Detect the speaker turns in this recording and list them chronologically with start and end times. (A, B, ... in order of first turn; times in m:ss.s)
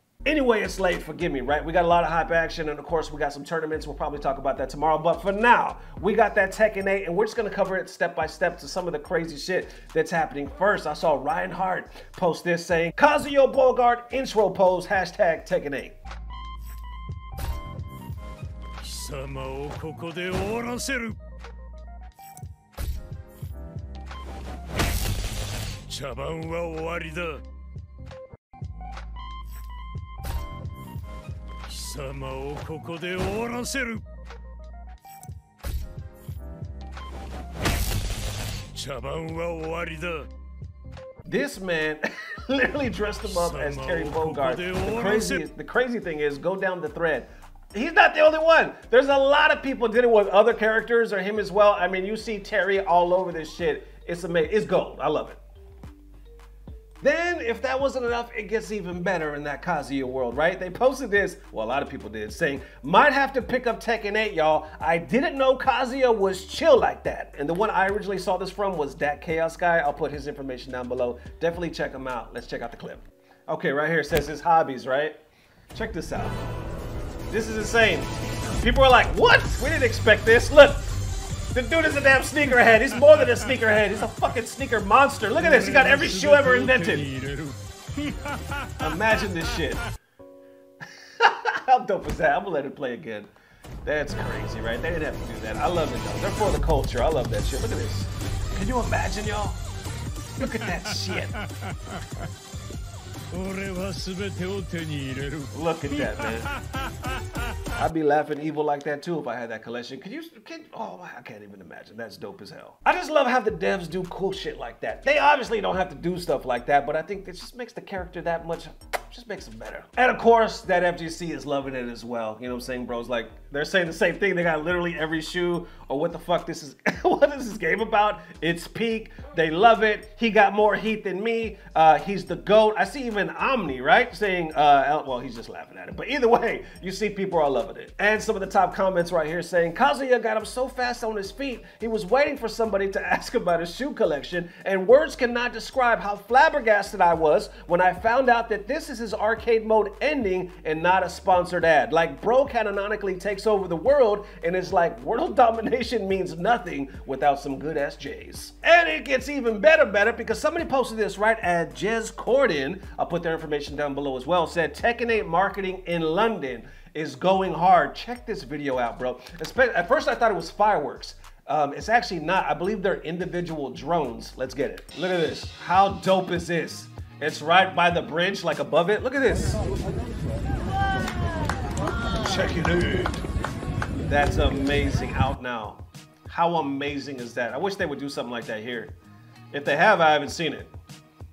0:00.2-0:16.0 A
0:18.8-0:21.2 B
0:25.9-0:27.4 B
0:31.7-0:34.0 B
0:38.7-0:40.3 B
0:41.2-0:55.4 A
0:43.2-0:45.4 B
0:57.0-1:15.2 A
1:15.7-1:16.4 A
1:17.3-1:21.0 A
1:21.5-1:27.1 A
1:23.0-1:23.6 B
1:25.4-1:29.0 B
1:28.8-1:29.8 A
1:31.2-1:33.3 A
1:33.8-1:39.6 A
1:40.4-1:41.3 A
1:40.4-1:41.4 B
1:43.3-1:47.1 B
1:45.5-1:46.5 A
1:47.7-2:59.6 A
3:02.1-3:03.2 A
3:04.0-3:08.9 A
3:09.5-3:10.7 A